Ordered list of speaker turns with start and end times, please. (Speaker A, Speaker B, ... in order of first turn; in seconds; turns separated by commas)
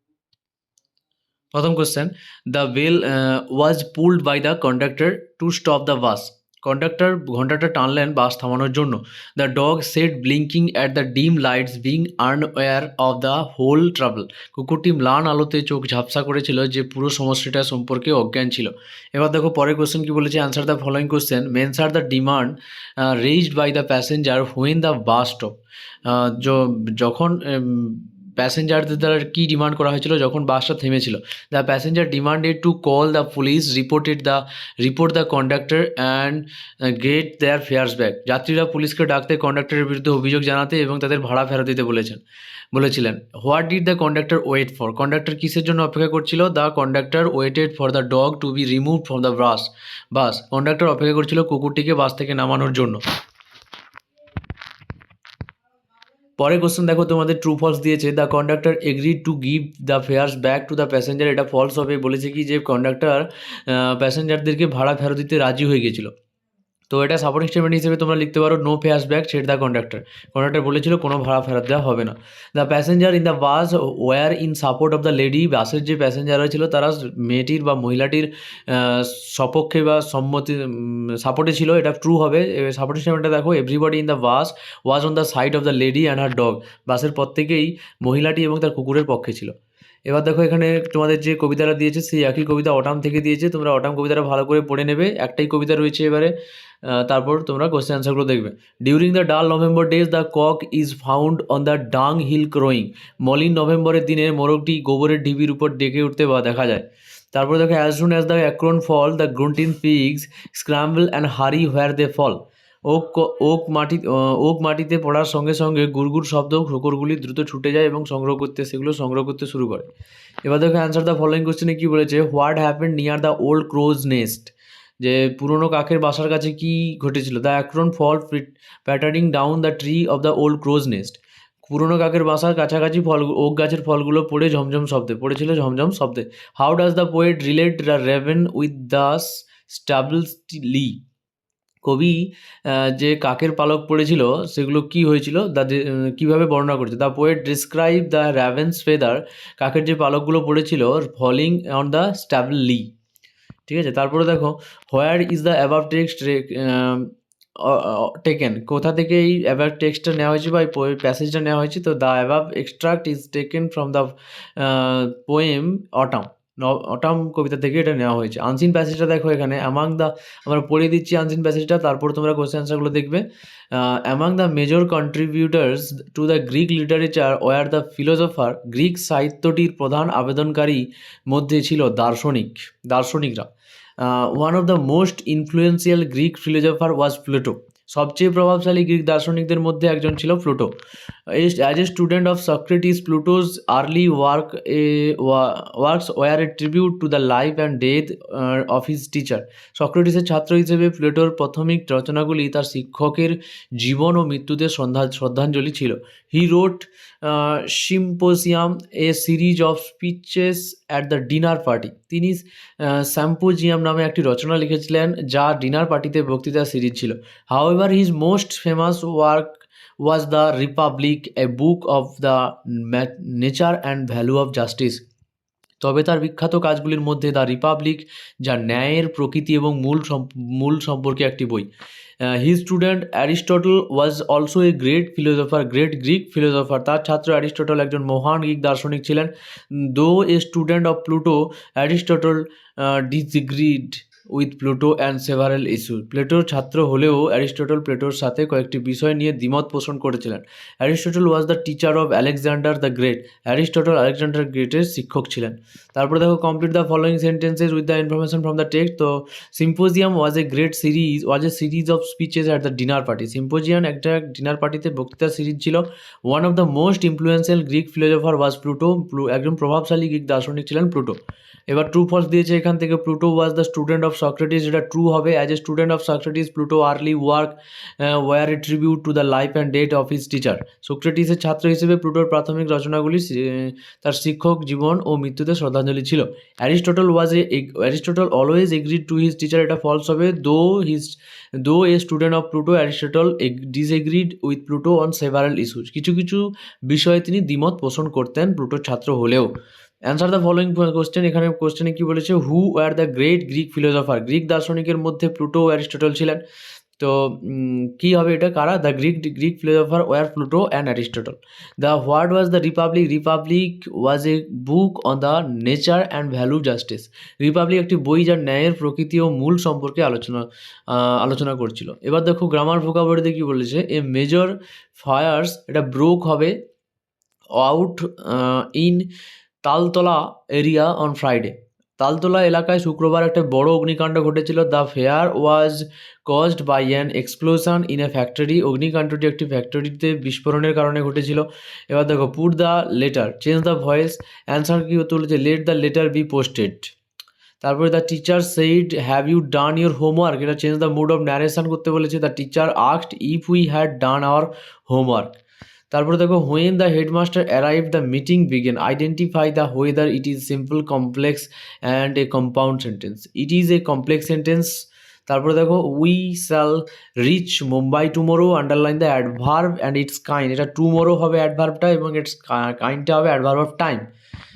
Speaker A: 1.5-42.2, Speaker A: 42.7-53.0, Speaker A: 56.4-66.1, Speaker A: 66.9-89.5, Speaker A: 90.1-119.9, Speaker A: 120.4-141.0, Speaker A: 141.8-152.9, Speaker A: 153.7-190.7, Speaker A: 191.3-225.0, Speaker A: 225.8-231.7, Speaker A: 232.2-299.5, Speaker A: 300.1-306.4, Speaker A: 307.0-326.6, Speaker A: 327.6-329.1, Speaker A: 329.6-346.9, Speaker A: 347.6-355.4, Speaker A: 355.9-374.1